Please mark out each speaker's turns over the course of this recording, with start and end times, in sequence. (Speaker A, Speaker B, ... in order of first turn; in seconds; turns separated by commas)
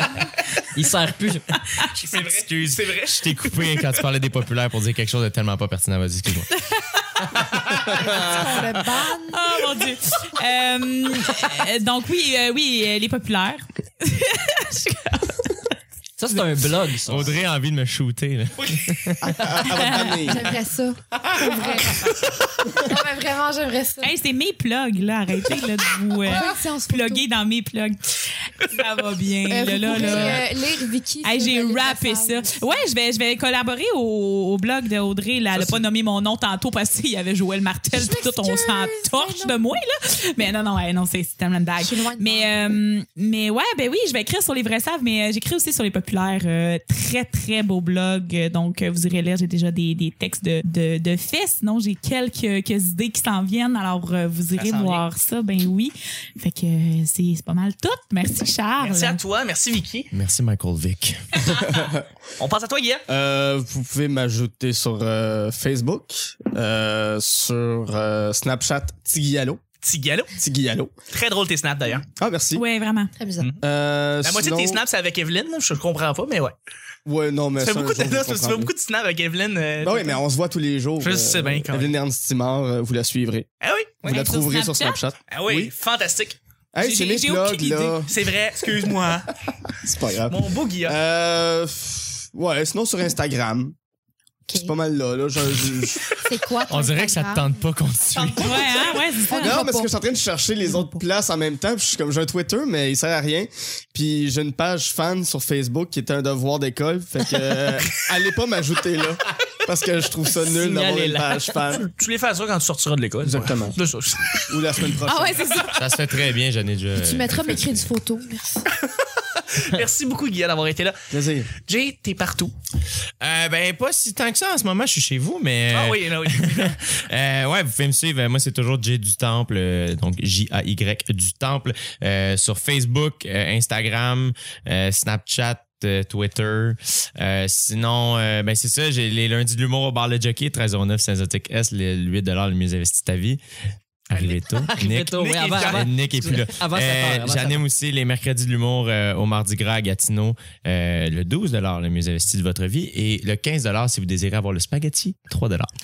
Speaker A: 0.7-1.6, Speaker B: 1.9-4.0, Speaker C: 2.1-6.5, Speaker C: 7.4-8.0, Speaker D: 7.8-9.6, Speaker E: 9.1-15.6, Speaker A: 16.2-17.4, Speaker C: 17.1-19.2, Speaker F: 19.2-20.6, Speaker E: 19.7-20.3, Speaker D: 20.2-22.1, Speaker C: 21.4-22.1, Speaker D: 22.7-24.1, Speaker E: 24.0-30.5, Speaker D: 26.2-27.2, Speaker D: 29.5-32.9, Speaker E: 31.2-59.2, Speaker B: 35.5-35.8, Speaker D: 37.9-39.8, Speaker D: 41.8-42.8, Speaker B: 54.6-55.0, Speaker B: 58.8-60.1, Speaker C: 60.1-61.2, Speaker F: 61.5-62.1, Speaker B: 62.4-63.0, Speaker F: 63.1-69.6, Speaker B: 69.8-70.3, Speaker F: 70.4-70.9, Speaker B: 71.1-72.1, Speaker F: 72.2-72.6, Speaker E: 72.5-73.1, Speaker D: 73.2-73.5, Speaker F: 73.6-74.8, Speaker B: 74.2-76.5, Speaker F: 77.1-78.7, Speaker B: 77.6-80.2, Speaker F: 79.8-83.5, Speaker B: 81.0-82.0, Speaker B: 83.6-84.0, Speaker F: 84.0-85.7, Speaker E: 84.0-85.0, Speaker B: 85.3-86.4, Speaker F: 86.7-89.2, Speaker E: 86.8-88.0, Speaker B: 88.1-89.3, Speaker F: 89.7-93.8, Speaker B: 90.3-91.0, Speaker D: 94.5-94.8, Speaker F: 94.5-96.0, Speaker D: 96.2-97.6, Speaker C: 96.7-98.6, Speaker D: 98.2-98.6, Speaker E: 98.4-99.6, Speaker D: 99.3-99.9, Speaker F: 99.4-111.9, Speaker D: 100.6-101.0, Speaker A: 110.5-111.6, Speaker B: 111.7-115.0, Speaker F: 113.2-113.8, Speaker F: 114.5-115.7, Speaker E: 115.1-115.7, Speaker C: 115.8-117.9, Speaker D: 117.0-118.7, Speaker B: 119.4-121.0, Speaker F: 121.1-121.5, Speaker B: 121.6-122.5, Speaker C: 123.2-143.4, Speaker B: 125.7-126.9, Speaker C: 144.1-155.7, Speaker B: 144.1-145.9, Speaker A: 144.7-147.7